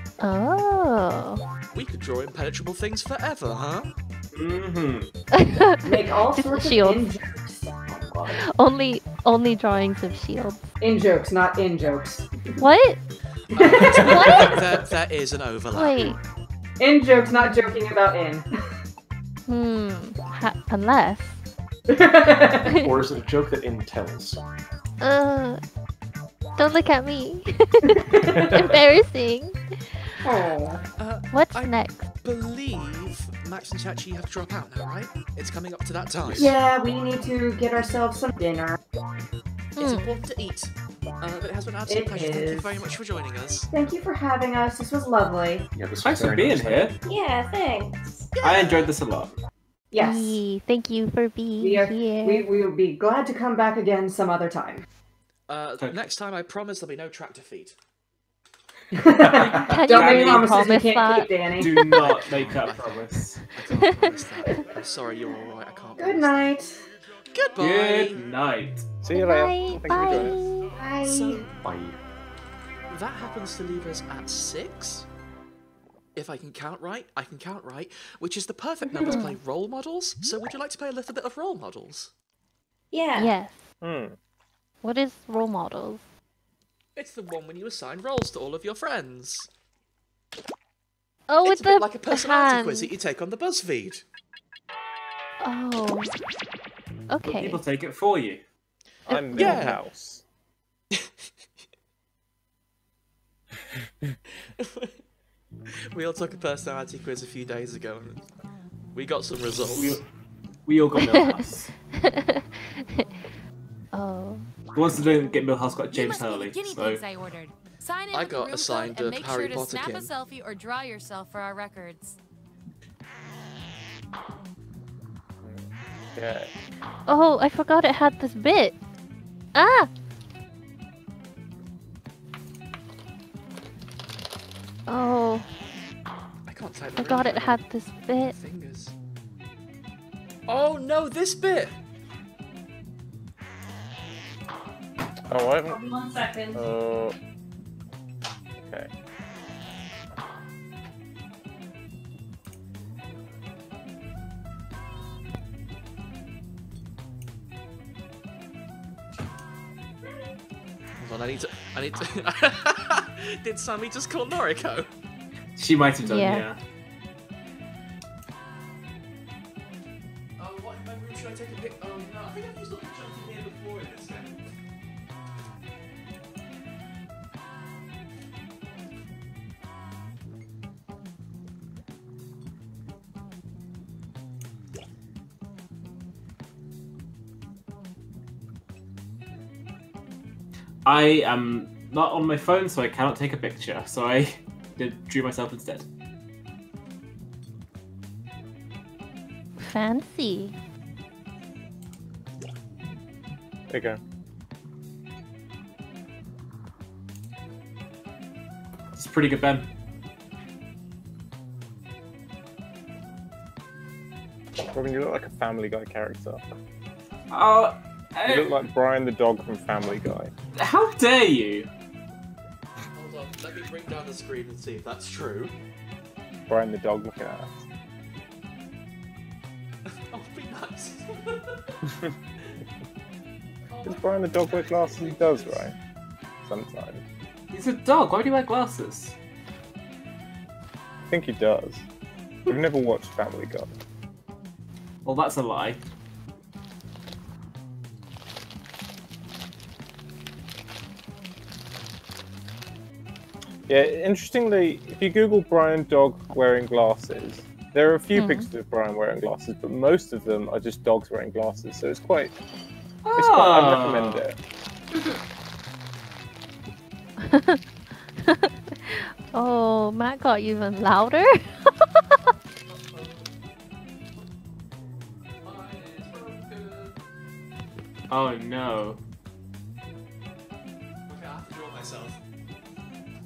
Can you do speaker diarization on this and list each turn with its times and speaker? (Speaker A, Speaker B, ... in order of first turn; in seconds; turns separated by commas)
Speaker A: 0.2-1.4, Speaker B: 1.7-3.9, Speaker C: 4.3-5.1, Speaker A: 5.3-7.1, Speaker D: 5.8-7.7, Speaker E: 7.9-8.4, Speaker A: 8.3-10.7, Speaker D: 10.8-12.4, Speaker A: 12.6-13.0, Speaker B: 13.5-16.2, Speaker D: 13.5-14.6, Speaker A: 14.0-14.6, Speaker A: 15.7-16.2, Speaker D: 16.8-18.5, Speaker A: 17.3-17.7, Speaker A: 19.5-21.4, Speaker D: 21.9-22.7, Speaker A: 22.6-23.0, Speaker E: 22.7-24.4, Speaker A: 25.0-25.6, Speaker A: 26.6-29.6, Speaker D: 27.9-28.7, Speaker D: 30.2-30.8, Speaker B: 31.0-36.5, Speaker A: 31.3-32.1, Speaker E: 36.2-36.5, Speaker D: 36.4-38.8, Speaker A: 39.8-40.2, Speaker B: 39.8-43.7, Speaker D: 41.9-42.8, Speaker D: 43.7-45.7, Speaker E: 45.7-47.0, Speaker C: 46.0-46.9, Speaker F: 47.0-48.3, Speaker B: 48.4-48.9, Speaker C: 48.4-49.3, Speaker D: 49.9-50.4, Speaker A: 50.0-52.5, Speaker D: 51.6-54.8, Speaker B: 55.5-57.8, Speaker C: 55.8-56.1, Speaker D: 58.9-62.0, Speaker A: 59.5-62.1, Speaker C: 59.9-60.7, Speaker C: 61.6-63.4, Speaker B: 62.0-66.4, Speaker A: 63.6-64.2, Speaker D: 66.0-66.8, Speaker B: 67.3-68.2, Speaker C: 67.6-68.9, Speaker G: 69.0-70.4, Speaker A: 69.1-70.8, Speaker D: 70.8-71.5, Speaker B: 71.0-71.5, Speaker E: 71.6-72.0, Speaker B: 72.9-75.0, Speaker B: 76.2-82.1, Speaker A: 79.1-79.4, Speaker F: 82.9-83.3, Speaker A: 83.1-83.7, Speaker G: 83.8-84.2, Speaker A: 84.8-86.0, Speaker B: 87.0-89.5, Speaker A: 91.3-92.9, Speaker B: 91.4-94.0, Speaker A: 95.4-96.1, Speaker A: 97.1-97.6, Speaker C: 97.2-98.4, Speaker G: 99.1-100.2, Speaker B: 99.3-99.8, Speaker A: 99.3-99.6, Speaker B: 104.6-104.9, Speaker B: 105.9-108.3, Speaker B: 108.9-110.0, Speaker C: 109.7-110.0, Speaker C: 110.7-111.7, Speaker A: 110.9-111.4, Speaker A: 112.0-112.4, Speaker A: 113.9-114.5, Speaker C: 114.7-117.0, Speaker H: 115.9-122.2, Speaker B: 118.1-120.1, Speaker G: 125.4-126.5, Speaker A: 127.1-128.8, Speaker A: 129.5-129.9, Speaker A: 134.9-135.4, Speaker B: 136.5-138.9, Speaker A: 136.9-138.3, Speaker B: 140.5-141.7, Speaker G: 145.3-145.8, Speaker F: 145.7-146.6, Speaker G: 146.5-147.1, Speaker G: 148.6-148.9, Speaker B: 161.0-164.9, Speaker C: 165.6-166.6, Speaker A: 166.0-166.5, Speaker B: 170.4-174.4, Speaker C: 190.8-195.8, Speaker A: 199.6-200.6, Speaker G: 203.7-204.0, Speaker C: 208.9-209.7, Speaker G: 214.7-216.4, Speaker C: 217.3-218.5, Speaker G: 218.2-220.3, Speaker C: 220.5-221.7, Speaker B: 222.9-225.5, Speaker G: 226.5-227.6, Speaker B: 230.0-231.4, Speaker B: 233.7-235.7, Speaker G: 233.8-235.7, Speaker G: 236.4-237.0, Speaker C: 237.5-239.1, Speaker G: 241.1-241.8, Speaker G: 242.5-243.7, Speaker C: 245.0-245.8, Speaker G: 253.7-262.3, Speaker A: 258.1-258.5, Speaker C: 263.0-264.2, Speaker G: 263.1-264.4, Speaker A: 267.2-267.6, Speaker A: 268.2-271.9, Speaker B: 275.4-276.9, Speaker C: 278.1-279.0, Speaker B: 281.1-282.2